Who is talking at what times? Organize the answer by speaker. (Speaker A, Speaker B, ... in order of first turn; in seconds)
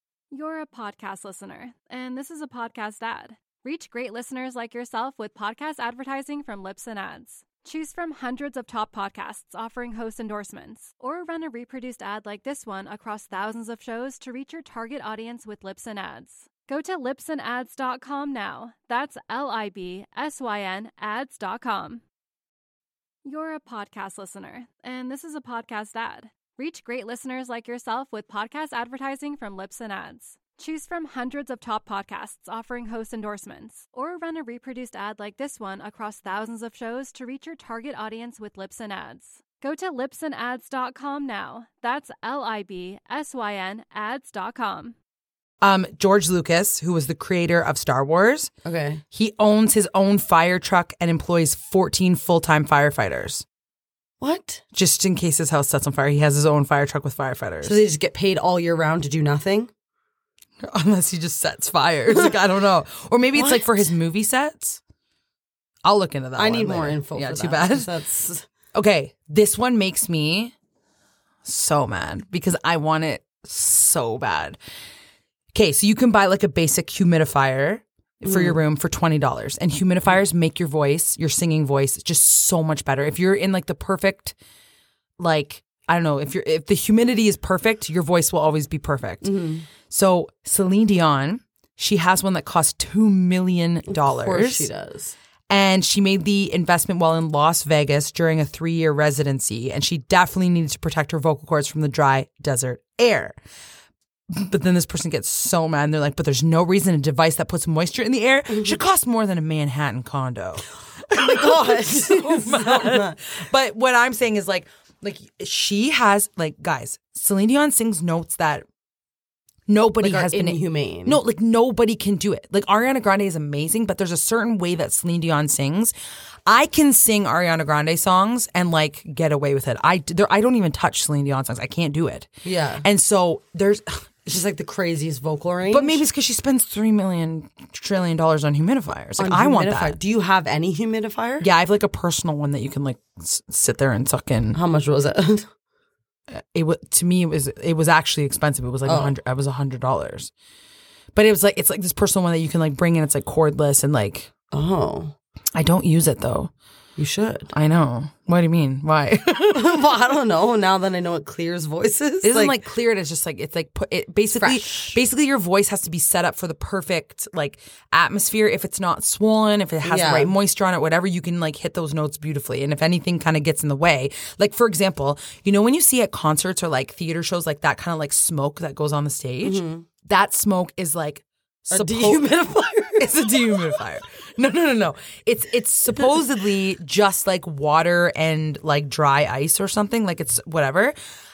Speaker A: 0.3-22.0, 23.2-44.9
Speaker B: 45.6-48.5, 49.1-53.4, 54.7-57.8, 60.6-64.8, 65.8-67.9, 68.7-70.5, 71.4-74.6, 75.5-84.3, 85.2-89.3, 89.8-94.7, 95.5-103.4, 104.3-118.6, 119.7-125.9, 126.5-132.3, 132.8-134.0, 135.7-140.0, 141.4-144.6, 146.3-150.3, 151.1-154.3, 155.5-156.5, 157.5-159.8, 162.2-182.3, 183.0-190.9
Speaker C: 48.6-49.0, 54.2-54.6, 57.6-59.7, 63.3-63.8, 66.4-68.5, 78.2-78.6, 89.2-89.7, 93.9-95.1, 111.1-113.2, 120.0-121.2, 132.4-132.8, 134.2-136.0, 139.2-141.5, 144.5-145.5, 148.8-149.1, 154.5-155.1, 157.0-157.5, 159.5-162.6, 164.4-165.0, 169.8-170.3, 179.4-179.8, 181.7-183.2